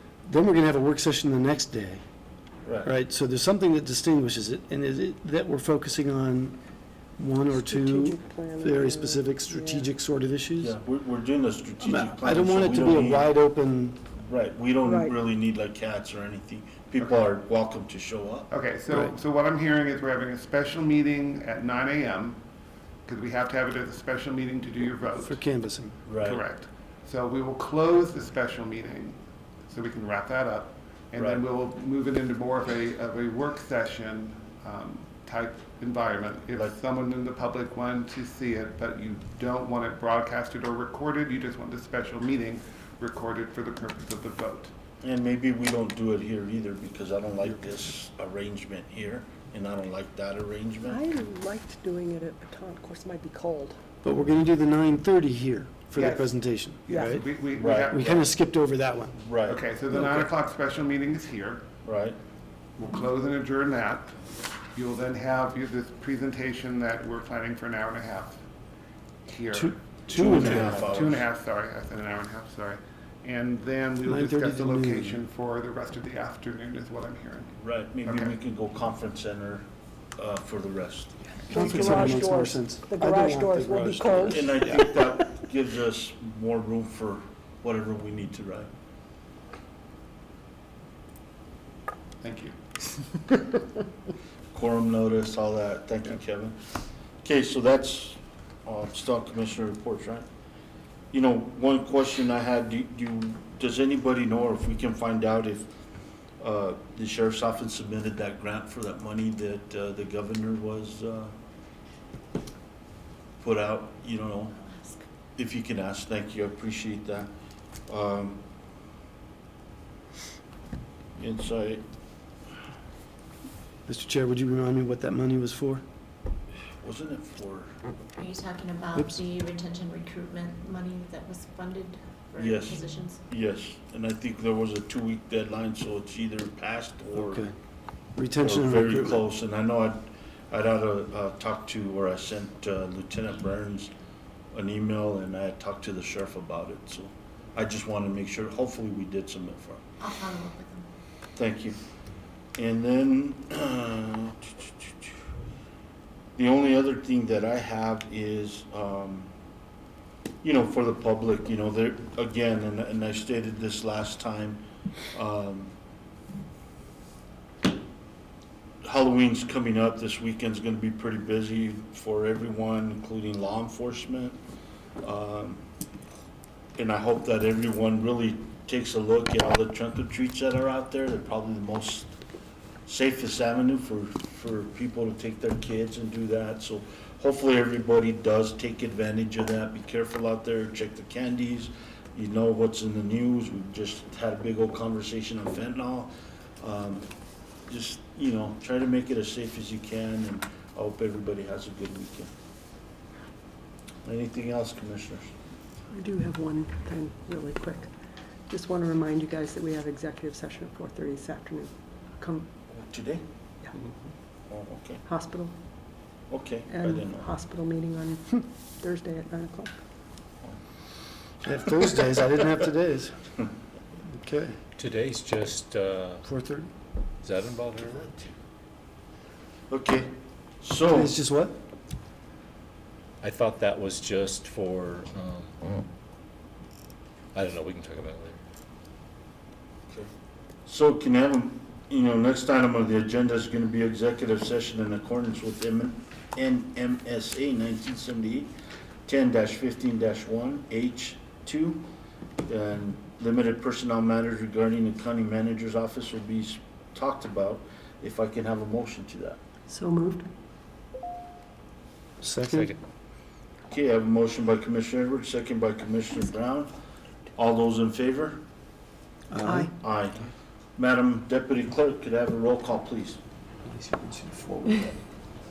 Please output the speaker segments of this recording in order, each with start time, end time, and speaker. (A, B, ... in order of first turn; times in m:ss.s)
0:00.2-0:02.0 A
0:02.6-0:02.9 B
0:02.8-0:06.6 A
0:07.2-0:10.7 A
0:07.5-0:09.9 C
0:10.6-0:13.3 B
0:11.8-0:14.0 A
0:14.2-0:18.5 B
0:14.8-0:15.1 C
0:17.0-0:17.2 D
0:18.5-0:22.4 D
0:23.0-0:25.4 D
0:25.2-0:26.0 A
0:26.0-0:26.4 B
0:26.2-0:29.2 D
0:29.7-0:44.7 D
0:31.2-0:31.4 B
0:45.0-0:51.0 B
0:50.8-0:53.8 C
0:54.0-0:57.2 A
0:56.0-0:58.2 D
0:57.5-0:58.2 B
0:57.9-0:59.2 A
0:59.1-0:59.6 B
0:59.4-1:01.6 D
1:01.8-1:02.2 B
1:02.8-1:04.1 D
1:04.7-1:08.4 D
1:09.2-1:18.3 D
1:09.5-1:10.7 A
1:10.1-1:11.2 B
1:14.0-1:15.2 A
1:17.5-1:19.6 B
1:20.2-1:22.2 B
1:21.5-1:24.8 A
1:21.5-1:25.1 C
1:24.0-1:28.7 B
1:32.2-1:32.6 D
1:34.5-1:36.6 B
1:37.2-1:40.2 B
1:41.1-1:45.7 B
1:46.4-1:51.3 B
1:53.4-1:54.6 B
1:54.7-1:55.0 E
1:55.4-1:57.3 B
1:57.9-1:58.4 B
2:01.2-2:01.8 B
2:03.8-2:05.8 A
2:06.8-2:07.7 B
2:08.2-2:13.2 E
2:12.4-2:17.4 B
2:17.2-2:17.5 A
2:18.2-2:19.2 A
2:18.4-2:23.9 B
2:24.5-2:29.8 B
2:30.0-2:30.8 E
2:31.4-2:31.8 B
2:32.6-2:35.2 B
2:36.4-2:39.3 B
2:40.4-2:45.7 B
2:48.8-2:54.4 B
2:55.0-2:55.6 B
2:56.8-3:02.1 B
3:02.8-3:17.1 B
3:17.7-3:22.3 B
3:24.0-3:25.3 B
3:25.9-3:27.9 C
3:28.5-3:32.5 C
3:32.7-3:33.2 B
3:34.5-3:35.0 B
3:35.0-3:35.5 C
3:36.3-3:37.3 B
3:36.7-3:39.8 C
3:41.4-3:43.1 A
3:44.1-3:44.6 A
3:44.8-3:46.2 F
3:46.2-3:46.7 A
3:47.2-3:48.3 F
3:49.7-3:51.2 B
3:50.9-3:51.6 A
3:53.2-3:55.6 F
3:57.3-3:58.4 F
4:00.6-4:08.5 B
4:09.1-4:11.8 B
4:12.4-4:19.4 B
4:19.7-4:20.3 C
4:22.2-4:22.7 A
4:22.4-4:22.8 F
4:23.7-4:26.7 B
4:27.4-4:28.4 B
4:29.3-4:29.7 A
4:29.4-4:29.7 C
4:29.7-4:30.2 B
4:30.8-4:33.2 B
4:33.6-4:34.9 A